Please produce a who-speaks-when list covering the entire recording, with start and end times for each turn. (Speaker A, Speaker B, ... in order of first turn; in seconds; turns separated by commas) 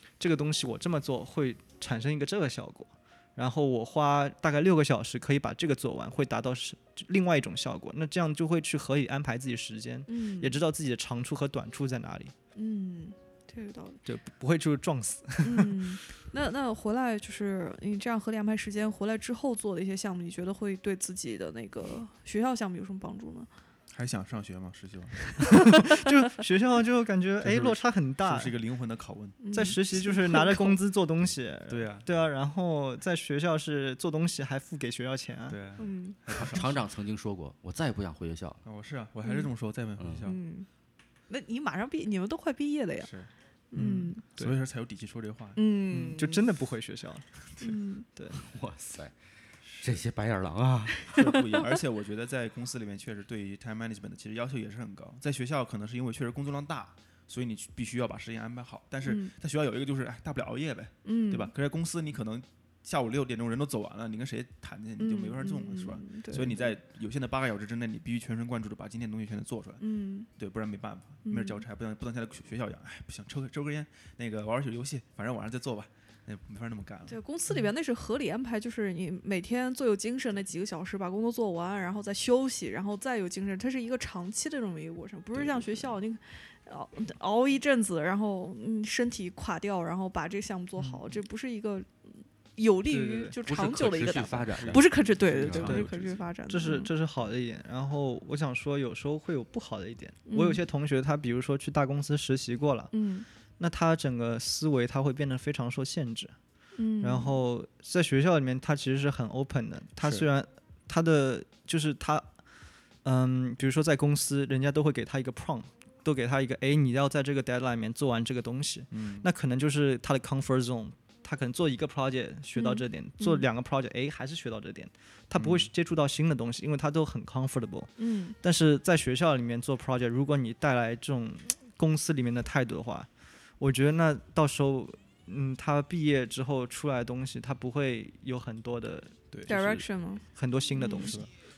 Speaker A: 0.2-12.3, Speaker B: 10.1-10.6, Speaker B: 12.6-14.0, Speaker A: 14.0-16.0, Speaker B: 15.4-23.5, Speaker C: 23.9-25.4, Speaker A: 26.1-28.6, Speaker C: 27.4-29.4, Speaker B: 29.4-30.7, Speaker A: 29.5-35.6, Speaker C: 31.7-32.1, Speaker C: 35.5-36.8, Speaker B: 35.8-36.2, Speaker D: 36.3-38.6, Speaker C: 38.6-40.4, Speaker D: 40.0-40.3, Speaker B: 40.2-40.7, Speaker B: 41.3-43.1, Speaker C: 43.0-45.6, Speaker B: 43.7-44.2, Speaker A: 43.8-44.5, Speaker B: 45.6-46.4, Speaker A: 45.9-47.3, Speaker B: 47.6-48.1, Speaker D: 48.3-51.2, Speaker C: 49.6-50.0, Speaker B: 51.1-51.6, Speaker C: 51.1-69.8, Speaker B: 59.0-59.3, Speaker B: 61.0-61.5, Speaker B: 65.0-66.7, Speaker B: 69.8-70.3, Speaker C: 70.4-77.2, Speaker B: 71.2-71.6, Speaker B: 77.1-96.9, Speaker A: 92.9-93.4, Speaker D: 93.4-95.9, Speaker C: 94.5-96.2, Speaker A: 96.5-102.9, Speaker B: 100.3-100.6, Speaker B: 102.9-103.3, Speaker A: 103.6-106.4, Speaker B: 106.8-107.4, Speaker A: 107.0-112.4, Speaker C: 110.0-110.3, Speaker A: 113.0-133.1, Speaker C: 118.9-119.3, Speaker B: 122.6-123.5, Speaker C: 125.3-125.7, Speaker B: 128.0-128.4, Speaker A: 133.6-141.2, Speaker C: 139.3-139.7, Speaker B: 139.5-141.2, Speaker C: 140.9-141.3